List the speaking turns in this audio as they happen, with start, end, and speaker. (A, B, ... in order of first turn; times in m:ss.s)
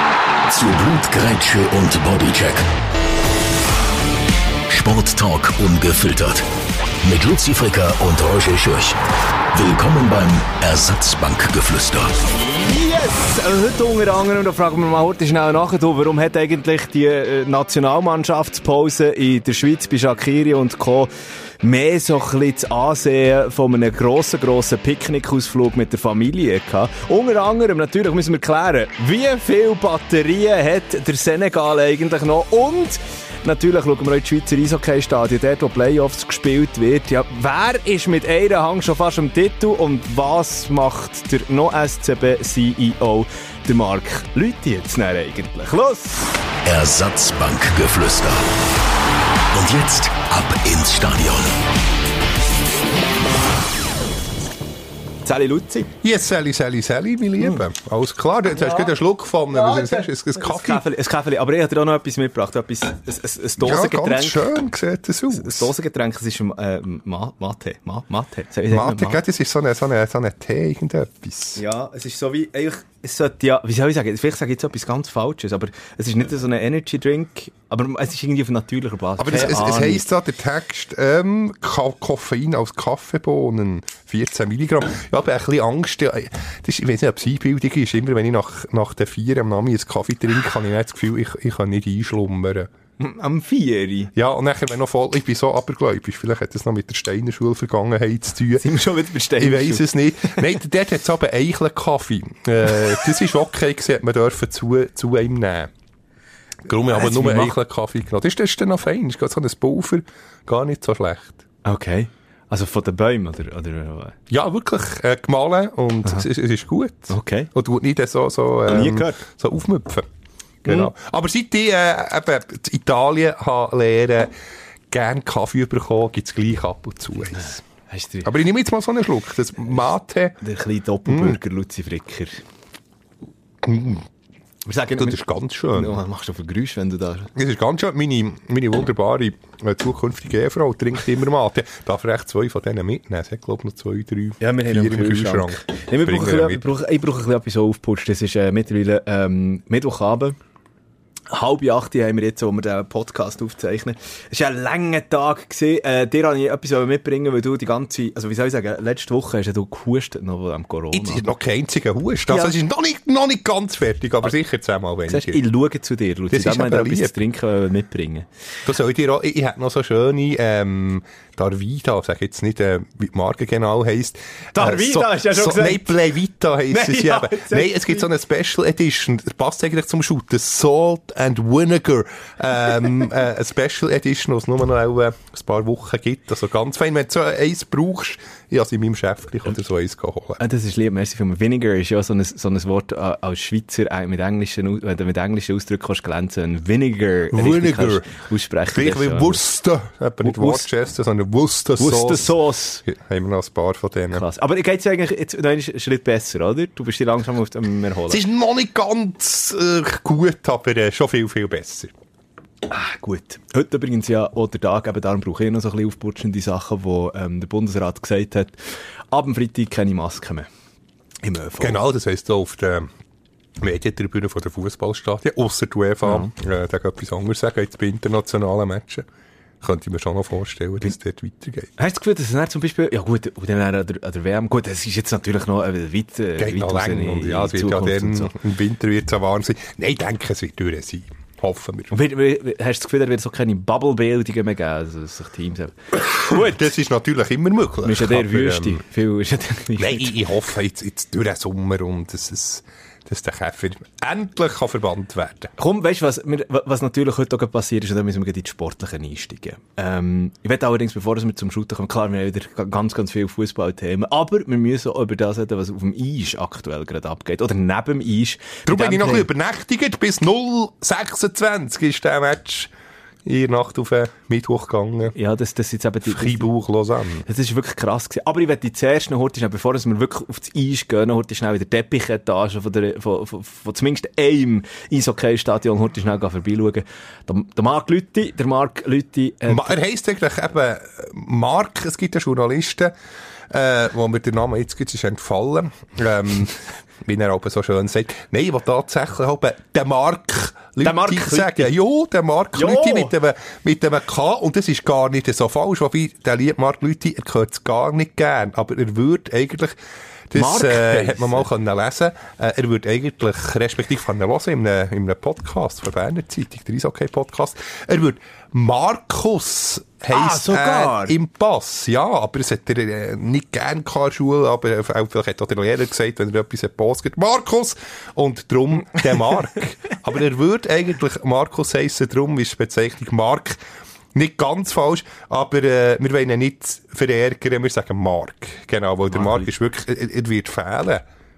0:00.5-0:02.7 A
0:04.7-0:06.4 A
0:07.0-0:09.0 A
0:09.5-0:12.2 A
0:12.6-0:21.1 B
0:21.6-0:46.3 B
0:46.6-0:48.4 A
0:49.5-0:51.6 A
0:55.2-0:55.9 B
0:56.0-1:00.8 C
0:58.5-0:58.9 B
0:59.5-1:04.4 B
1:03.6-1:05.7 C
1:05.3-1:09.2 B
1:08.7-1:11.6 C
1:11.6-1:20.0 B
1:19.2-1:32.7 C
1:33.0-1:34.1 B
1:34.1-1:38.6 C
1:38.6-1:40.4 B
1:39.4-1:45.7 C
1:46.6-1:51.4 C
1:46.9-1:47.6 B
1:51.6-1:54.2 B
1:54.3-2:00.1 C
1:57.1-1:57.5 B
1:58.7-1:59.2 B
2:00.6-2:04.3 C
2:00.6-2:00.9 B
2:04.9-2:07.6 C
2:07.3-2:08.3 B
2:08.2-2:10.4 C
2:10.4-2:12.4 B
2:11.1-2:11.4 C
2:13.6-2:14.0 C
2:14.6-2:15.2 B
2:15.0-2:16.0 C
2:15.7-2:17.3 B
2:17.3-2:26.6 C
2:24.4-2:30.4 B
2:31.3-2:41.2 B
2:40.9-2:45.4 C
2:42.3-2:42.5 B
2:45.1-2:48.3 B
2:46.3-2:47.2 C
2:48.6-3:10.4 C
2:54.5-2:55.9 B
2:56.7-2:58.1 B
3:10.4-3:19.4 B
3:17.3-3:18.1 C
3:18.7-3:24.2 C
3:20.2-3:20.7 B
3:21.8-3:22.8 B
3:24.1-3:28.2 B
3:28.1-3:31.9 C
3:32.7-3:38.6 B
3:39.1-3:40.5 B
3:41.2-3:41.8 B
3:41.6-3:42.9 C
3:43.6-3:49.0 C
3:46.0-3:46.3 B
3:49.6-3:51.7 C
3:51.8-3:58.3 B
3:56.4-4:02.0 C
4:01.9-4:06.7 B
4:06.1-4:08.8 C
4:07.8-4:10.2 B
4:09.8-4:15.5 C
4:15.6-4:29.3 B
4:28.6-4:32.7 C
4:33.2-4:35.1 C
4:35.1-4:36.5 B
4:36.1-4:37.2 C
4:37.2-4:49.8 B
4:49.5-4:52.9 C
4:53.5-5:09.7 C
5:00.8-5:01.7 B
5:02.5-5:03.1 B
5:10.3-5:33.6 C
5:10.4-5:11.4 B
5:20.1-5:21.2 B
5:34.1-5:41.0 C
5:39.1-5:39.5 B